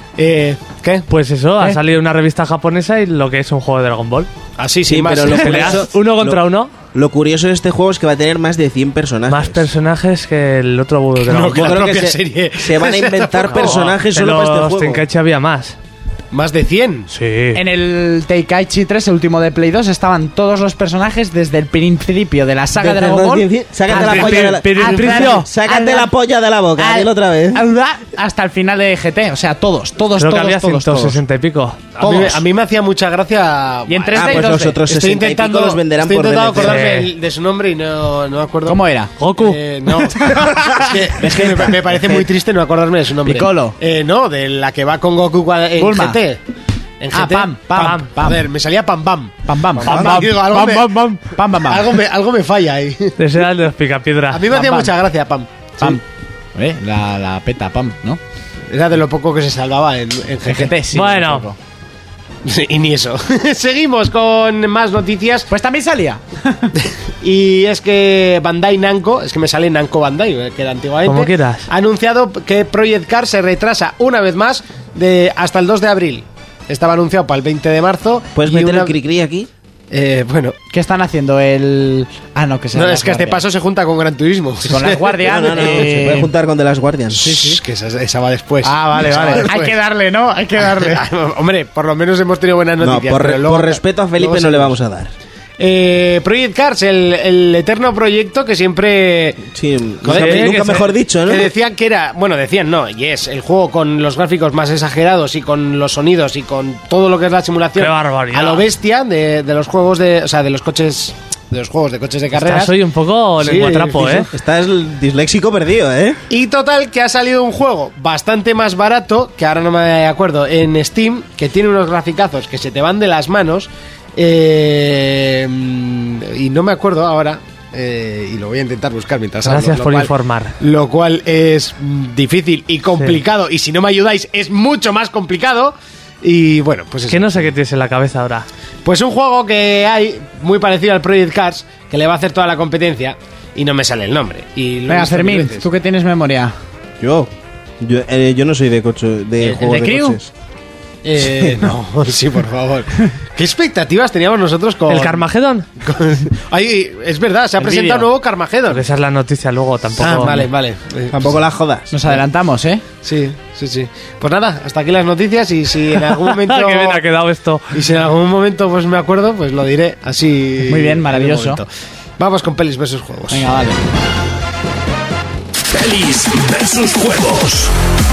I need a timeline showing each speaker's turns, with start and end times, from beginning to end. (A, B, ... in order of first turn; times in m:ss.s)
0:00.2-0:01.1 A
0:01.1-0:04.3 B
0:04.6-0:05.9 A
0:04.8-0:06.4 C
0:05.2-0:06.7 B
0:06.9-0:09.7 C
0:09.3-0:11.8 B
0:11.2-0:13.8 A
0:11.5-0:15.0 C
0:13.5-0:15.8 B
0:16.3-0:17.1 A
0:17.1-0:17.6 B
0:17.5-0:26.1 D
0:22.8-0:27.6 C
0:23.9-0:25.5 B
0:26.8-0:31.2 D
0:30.2-0:31.9 B
0:32.0-0:38.8 A
0:32.0-0:32.4 D
0:33.9-0:34.8 D
0:34.1-0:36.9 C
0:36.6-0:37.1 B
0:38.6-0:39.1 D
0:39.2-0:39.6 B
0:39.4-0:46.4 A
0:40.2-0:42.2 D
0:43.2-0:43.8 D
0:45.8-0:46.2 D
0:47.0-0:51.0 A
0:47.1-0:48.4 D
0:47.7-0:48.1 B
0:49.5-0:51.9 D
0:49.9-0:51.2 B
0:51.6-0:53.2 A
0:53.2-0:54.5 B
0:54.3-0:56.0 A
0:54.5-0:54.9 D
0:56.5-0:58.2 D
0:58.7-1:00.8 A
1:00.4-1:01.6 D
1:00.9-1:01.4 B
1:02.4-1:05.5 A
1:05.5-1:06.7 D
1:07.2-1:18.9 A
1:11.0-1:11.7 B
1:18.3-1:19.5 C
1:19.9-1:20.6 A
1:20.7-1:23.4 D
1:22.7-1:24.9 A
1:24.7-1:26.3 D
1:24.8-1:27.5 C
1:27.2-1:29.8 A
1:28.6-1:31.0 D
1:30.6-1:34.8 A
1:32.8-1:35.1 C
1:35.6-1:39.5 A
1:39.5-1:41.5 C
1:40.0-1:52.7 A
1:40.1-1:40.9 B
1:47.8-1:48.7 B
1:52.3-1:54.3 B
1:53.4-1:54.3 A
1:54.3-1:56.2 C
1:56.3-2:17.4 A
2:09.4-2:10.6 B
2:17.1-2:18.5 B
2:18.8-2:25.7 A
2:24.9-2:26.5 D
2:27.0-2:30.3 C
2:29.4-2:30.2 D
2:31.0-2:35.2 A
2:34.9-2:35.6 B
2:35.8-2:38.9 A
2:37.6-2:38.1 D
2:38.7-2:40.5 B
2:40.0-2:41.3 A
2:41.1-2:41.9 C
2:41.9-2:42.8 D
2:43.0-2:47.0 A
2:46.0-2:47.8 B
2:47.7-2:51.7 A
2:50.6-2:51.6 D
2:52.2-2:53.5 A
2:53.3-2:53.8 D
2:55.7-2:57.7 E